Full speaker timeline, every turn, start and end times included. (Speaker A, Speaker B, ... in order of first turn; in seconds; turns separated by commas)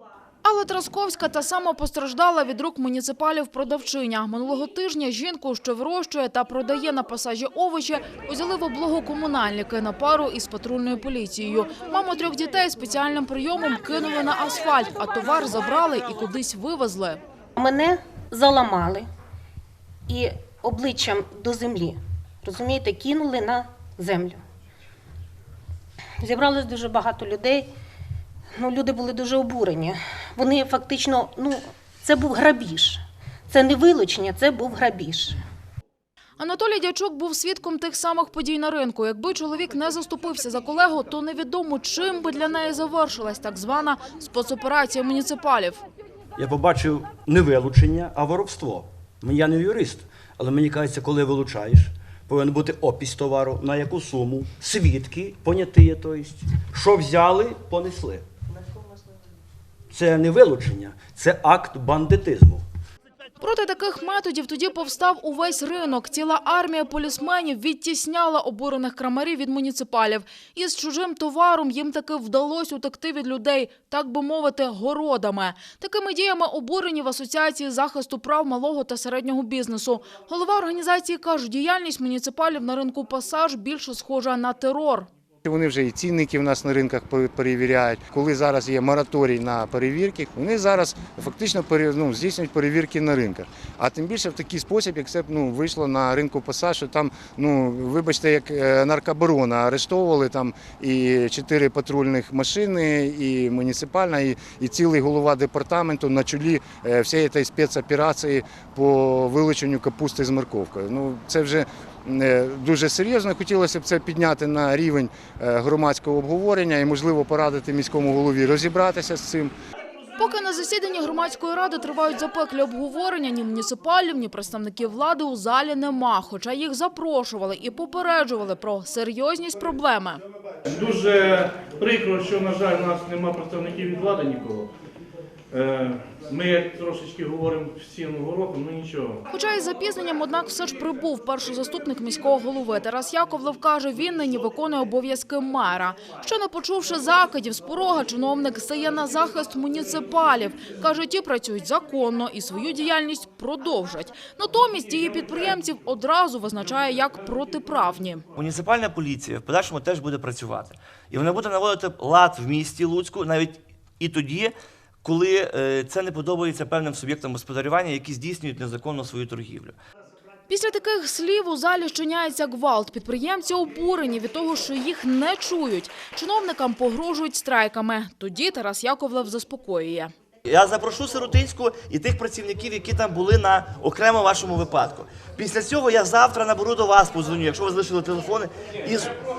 Speaker A: 0.4-17.2, Speaker B: 17.6-19.1, Speaker B: 20.1-24.4, Speaker B: 26.2-27.7, Speaker B: 28.6-35.4, Speaker A: 36.4-45.8, Speaker C: 46.4-58.2, Speaker C: 59.9-62.6, Speaker A: 63.4-85.1, Speaker D: 85.4-119.5, Speaker A: 120.2-130.2, Speaker E: 130.7-134.7, Speaker E: 135.5-139.2, Speaker A: 139.3-158.2, Speaker F: 158.3-169.8, Speaker A: 170.5-180.1, Speaker F: 180.4-189.1